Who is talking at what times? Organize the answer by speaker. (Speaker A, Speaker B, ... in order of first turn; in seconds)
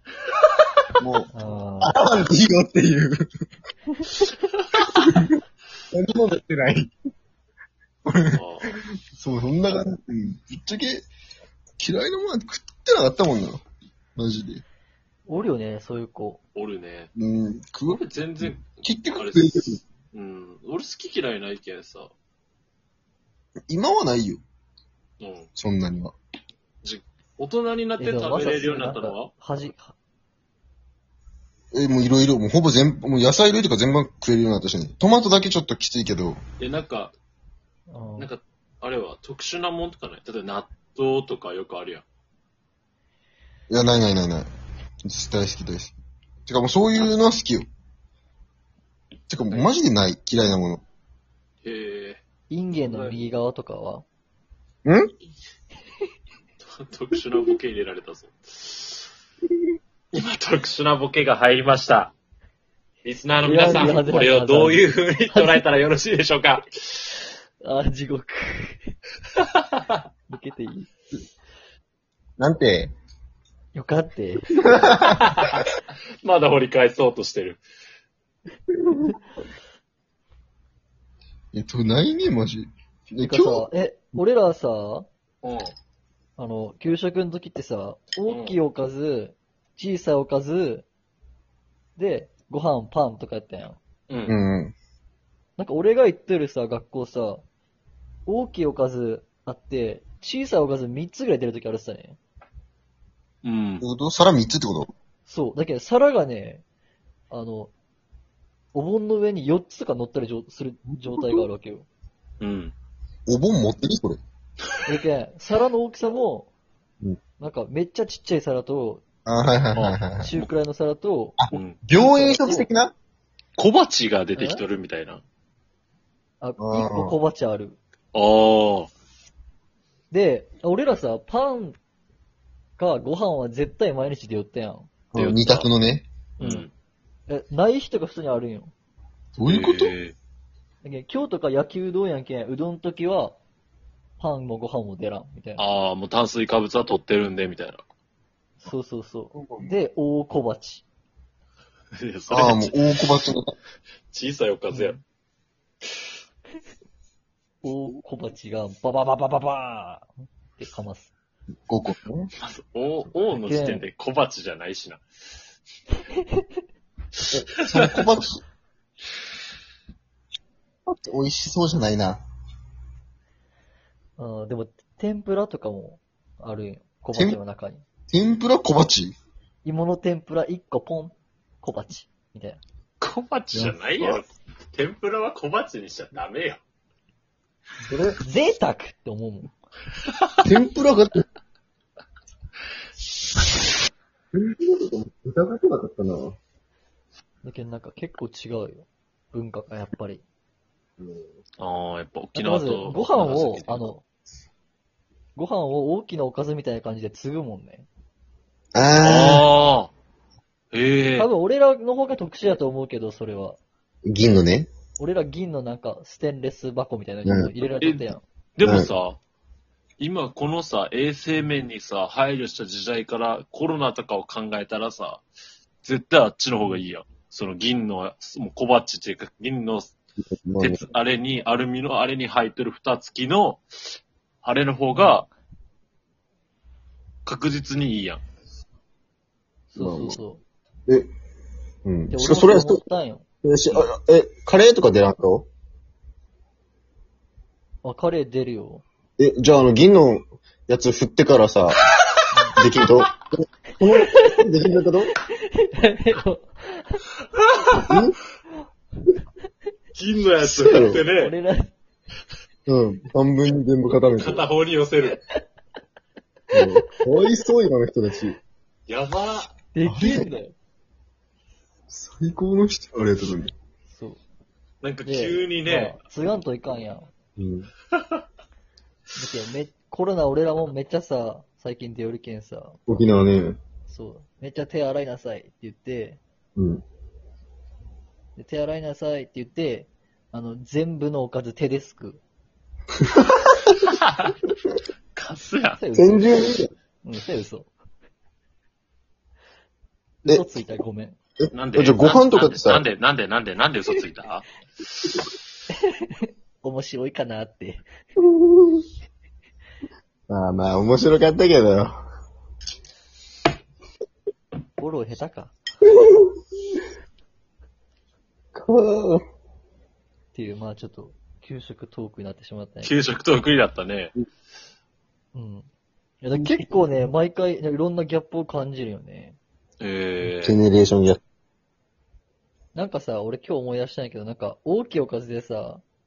Speaker A: 1.0-1.3, 1.8-3.2, 5.0-5.4, 5.9-6.9, 8.0-8.4, 9.1-11.1, 11.8-13.6, 14.2-14.6, 17.1-19.8, 23.7-24.4, 25.6-26.1, 31.7-36.4, 43.7-44.5, 45.0-45.9, 46.5-47.7, 49.3-50.8, 54.8-55.1, 63.6-64.0, 72.4-72.9, 74.6-75.5, 81.5-84.2, 94.3-94.7, 103.8-104.9, 111.1-111.4, 113.3-114.2, 119.2-120.5, 121.4-122.9, 126.6-127.1, 135.1-136.1, 139.3-139.9, 149.3-149.7, 152.3-153.5, 161.7-162.3, 167.3-168.4, 170.9-172.2, 177.1-177.4, 178.1-179.1, 187.9-188.2, 190.4-191.2, 194.3-196.4, 201.0-201.3, 208.7-209.4, 214.1-214.7, 217.2-217.5, 218.6-218.9, 230.2-230.8, 239.8-240.2, 241.8-242.8, 243.4-245.5, 249.2-251.8, 252.6-255.1, 257.8-258.2, 260.4-261.0, 262.7-264.4, 266.5-268.4, 269.9-270.3, 271.9-273.5, 277.4-277.7, 282.9-283.6, 286.6-286.8, 293.1-293.5, 295.9-296.7, 301.4-302.8, 308.2-308.8, 310.3-312.0, 316.0-316.3, 318.5-319.2, 326.3-326.9, 330.2-331.2
Speaker B: 1.3-1.9, 15.3-16.4, 28.0-29.9, 37.9-38.3, 52.5-54.0, 63.4-65.7, 67.6-68.9, 70.3-70.9, 73.7-74.5, 83.2-85.1, 86.4-90.9, 92.0-93.8, 95.6-97.4, 98.2-102.2, 105.2-106.6, 107.3-107.7, 108.7-111.8, 114.8-116.5, 117.4-119.0, 120.2-121.4, 121.9-122.7, 124.3-124.6, 126.4-127.8, 130.1-131.8, 132.8-134.9, 136.4-136.7, 137.3-138.7, 140.8-143.3, 144.2-145.6, 148.6-150.8, 154.7-155.0, 157.6-161.1, 163.3-163.8, 174.2-177.8, 179.6-182.6, 183.5-184.1, 188.2-189.5, 197.4-200.2, 202.3-204.0, 205.3-207.9, 211.2-213.6, 215.0-218.2, 234.9-235.2, 239.7-240.4, 242.1-243.2, 247.8-248.8, 252.3-252.6, 253.9-254.2, 255.3-257.0, 260.9-261.7, 269.7-270.5, 273.9-274.2, 275.0-277.1, 279.1-282.8, 283.9-286.2, 288.4-292.2, 295.7-296.3, 297.0-297.7, 300.2-301.2, 305.7-307.8, 314.8-315.5, 320.3-322.9, 325.3-325.7, 326.2-329.4, 332.7-335.8
Speaker C: 8.3-8.7, 16.5-17.1, 17.9-22.1, 25.2-25.5, 26.8-29.3, 36.6-37.1, 38.2-42.0, 51.6-52.2, 52.7-53.3, 56.6-59.1, 60.1-62.1, 63.0-67.0, 74.9-75.7, 76.2-77.6, 85.4-85.7, 88.3-88.5, 94.1-94.4, 103.4-103.8, 112.4-112.7, 119.7-120.0, 121.5-121.8, 123.6-125.2, 128.1-128.9, 135.1-135.7, 136.4-136.7, 139.4-140.1, 145.6-147.8, 152.0-152.7, 154.1-155.0, 162.4-165.0, 183.0-186.6, 201.6-203.9, 209.0-209.9, 210.7-211.3, 217.8-219.2, 220.0-225.2, 225.8-229.9, 230.6-233.6, 234.4-235.2, 237.2-238.2, 259.9-261.3, 264.2-265.2, 268.9-269.5, 274.8-276.0, 277.9-278.2, 295.1-295.8, 301.5-304.5, 322.8-324.1, 329.8-330.6